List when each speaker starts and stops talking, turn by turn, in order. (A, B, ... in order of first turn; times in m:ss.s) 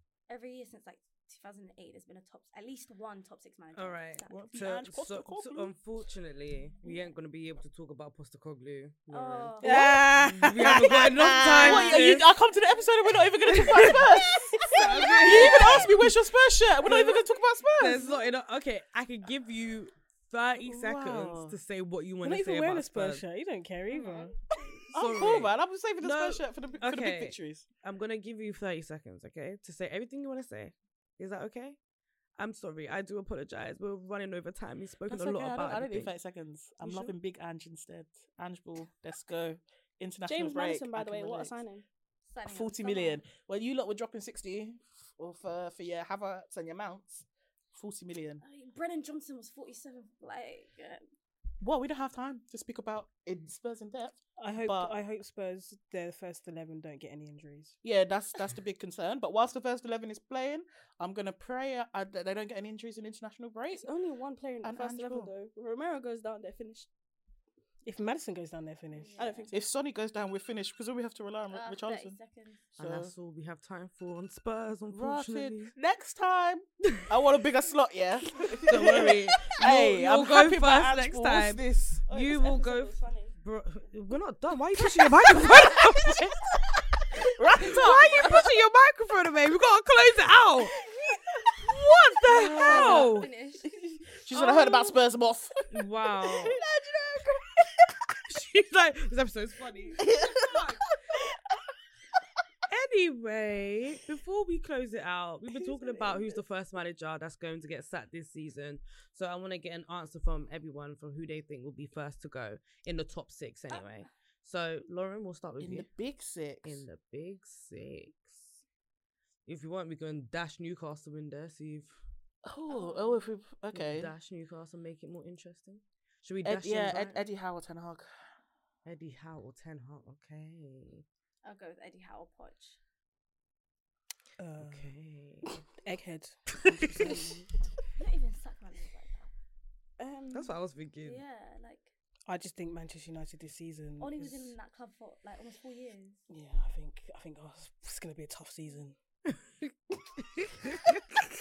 0:00.3-0:04.4 A
0:03.8-0:12.3 B
0:04.3-0:05.7 C
0:09.1-0:10.0 A
0:09.6-0:11.9 D
0:10.6-0:18.1 C
0:13.5-0:16.0 B
0:15.3-0:15.9 D
0:16.9-0:17.1 B
0:17.8-0:23.2 B
0:20.6-0:21.6 C
0:22.2-0:24.4 D
0:23.9-0:24.9 A
0:24.9-0:27.7 C
0:24.9-0:31.8 B
0:32.4-0:36.2 B
0:35.1-0:41.6 C
0:36.8-0:37.1 D
0:40.2-0:41.8 E
0:42.3-0:43.2 A
0:42.5-0:48.4 C
0:48.4-0:51.0 A
0:51.6-0:55.0 C
0:54.4-0:57.8 D
0:57.8-1:03.9 C
1:03.7-1:06.9 E
1:04.6-1:05.3 C
1:07.8-1:09.2 D
1:09.0-1:09.5 A
1:09.2-1:09.5 E
1:09.5-1:12.2 C
1:11.5-1:12.6 A
1:12.8-1:13.1 C
1:12.8-1:15.7 B
1:14.9-1:22.1 C
1:18.7-1:26.5 B
1:22.1-1:23.4 E
1:25.0-1:26.3 C
1:27.3-1:28.5 C
1:27.5-1:30.8 B
1:31.6-1:33.3 B
1:32.3-1:33.1 C
1:32.9-1:33.7 A
1:34.2-1:37.9 C
1:34.4-1:34.9 B
1:35.7-1:36.6 B
1:38.3-1:40.8 B
1:40.0-1:40.6 C
1:42.7-1:55.9 B
1:45.9-1:46.3 E
1:55.6-1:56.8 C
1:56.6-1:58.6 B
1:59.5-2:02.0 B
2:02.4-2:04.1 C
2:02.7-2:03.3 A
2:03.7-2:07.2 B
2:06.4-2:08.1 C
2:08.8-2:11.0 B
2:11.4-2:12.8 A
2:14.4-2:15.0 D
2:14.6-2:15.7 B
2:15.8-2:17.5 D
2:18.0-2:19.3 A
2:20.0-2:20.6 E
2:20.3-2:21.2 B
2:21.0-2:21.9 A
2:22.3-2:24.6 D
2:24.0-2:26.2 A
2:26.3-2:29.0 D
2:29.3-2:31.0 B